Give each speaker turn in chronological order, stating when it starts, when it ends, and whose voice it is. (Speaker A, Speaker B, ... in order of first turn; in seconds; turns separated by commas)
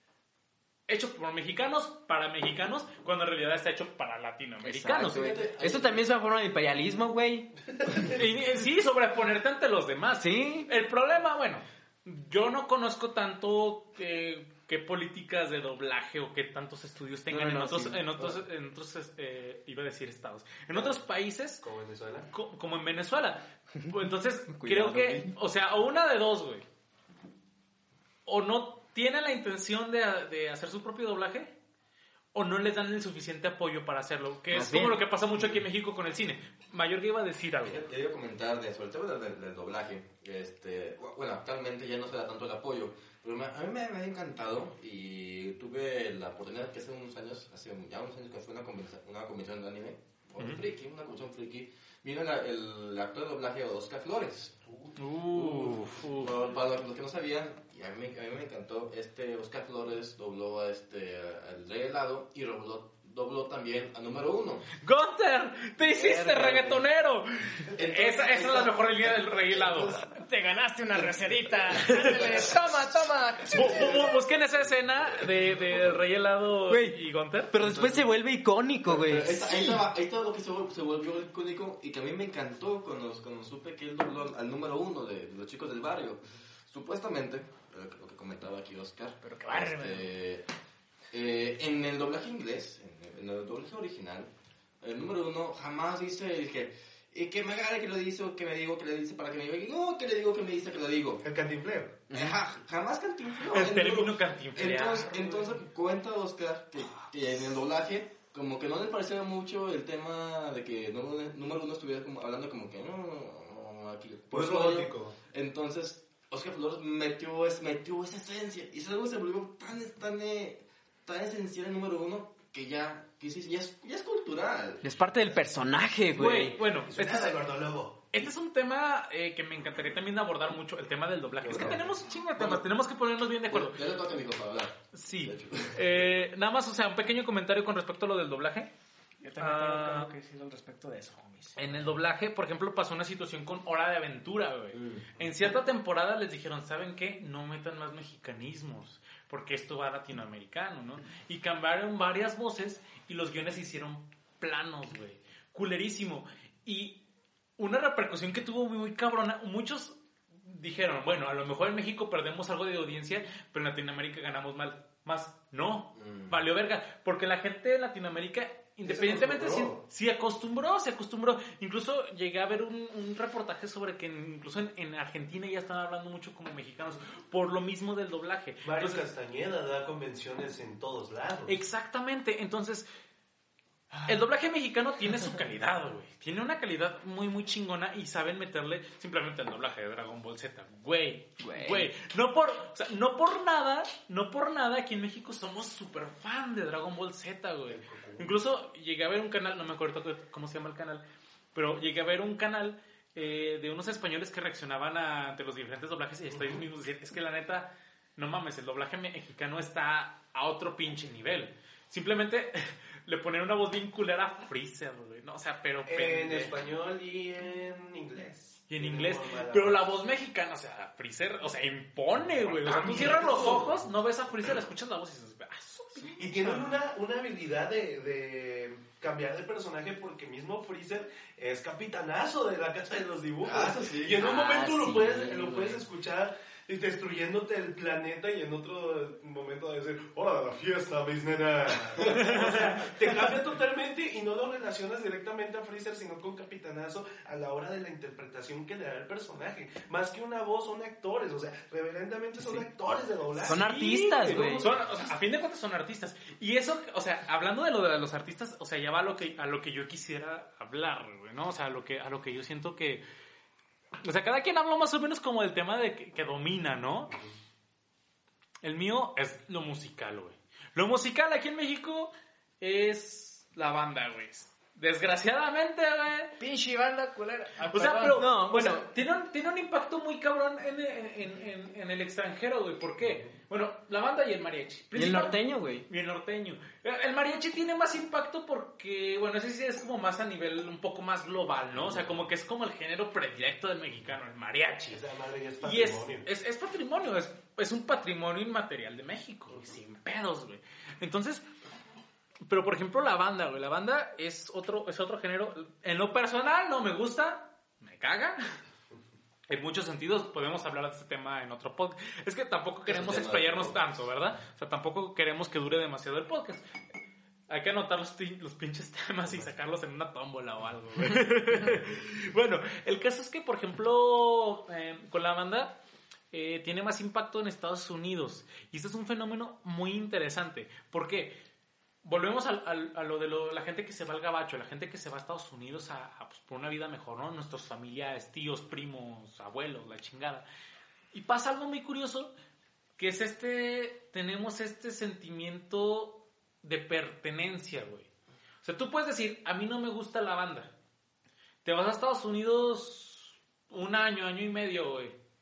Speaker A: 0.9-5.3, Speaker B: 4.6-8.2, Speaker C: 5.0-6.0, Speaker A: 8.0-21.6, Speaker B: 10.2-10.7, Speaker B: 17.3-18.3, Speaker D: 20.7-21.0, Speaker D: 21.6-22.3, Speaker A: 22.3-26.6, Speaker B: 24.5-25.3, Speaker A: 28.3-31.5, Speaker A: 32.3-37.8, Speaker B: 34.5-35.1, Speaker C: 37.6-54.6, Speaker A: 55.0-56.3, Speaker C: 55.3-64.7, Speaker A: 64.8-70.0, Speaker B: 65.9-66.8, Speaker C: 67.7-70.0, Speaker E: 70.1-74.1, Speaker A: 71.9-72.4, Speaker A: 73.5-77.7, Speaker D: 73.6-74.1, Speaker B: 76.7-79.8, Speaker C: 77.6-78.0, Speaker C: 78.9-90.5, Speaker E: 89.2-90.1, Speaker C: 91.1-101.2, Speaker D: 101.2-102.0, Speaker B: 102.1-102.4, Speaker C: 102.1-124.9, Speaker A: 103.5-105.6, Speaker D: 114.3-115.2, Speaker B: 124.8-126.6, Speaker A: 126.1-127.4, Speaker D: 126.8-128.0, Speaker A: 128.1-133.9, Speaker D: 131.4-131.9, Speaker C: 132.4-132.6, Speaker C: 133.5-136.1, Speaker A: 134.9-138.7, Speaker E: 139.2-141.8, Speaker A: 139.4-140.1, Speaker A: 141.6-157.0, Speaker C: 144.7-145.2, Speaker A: 157.6-179.0, Speaker C: 165.9-166.4, Speaker D: 168.8-169.8, Speaker D: 178.6-181.6, Speaker A: 181.5-182.9, Speaker A: 184.1-201.0, Speaker B: 191.4-191.9, Speaker D: 197.7-198.3, Speaker A: 201.6-216.6, Speaker D: 206.3-206.6, Speaker D: 215.9-220.0, Speaker A: 218.7-226.8, Speaker D: 222.4-223.7, Speaker C: 223.2-223.6, Speaker D: 226.2-253.6, Speaker C: 233.4-234.3, Speaker B: 234.2-235.8, Speaker A: 242.1-242.4, Speaker A: 253.4-263.0, Speaker B: 253.4-254.7, Speaker D: 254.4-254.8, Speaker A: 264.0-267.1, Speaker A: 268.6-276.4, Speaker E: 276.4-278.3, Speaker A: 277.7-295.0, Speaker B: 278.1-278.9, Speaker D: 283.0-283.3, Speaker B: 284.9-285.9, Speaker D: 294.9-296.3, Speaker A: 295.6-301.4, Speaker A: 302.5-308.4, Speaker A: 309.5-316.6, Speaker C: 312.9-314.0, Speaker A: 317.5-325.8, Speaker A: 326.3-331.4, Speaker A: 332.0-340.4, Speaker A: 341.1-342.3, Speaker A: 343.0-348.1, Speaker A: 348.6-350.7, Speaker A: 351.6-355.2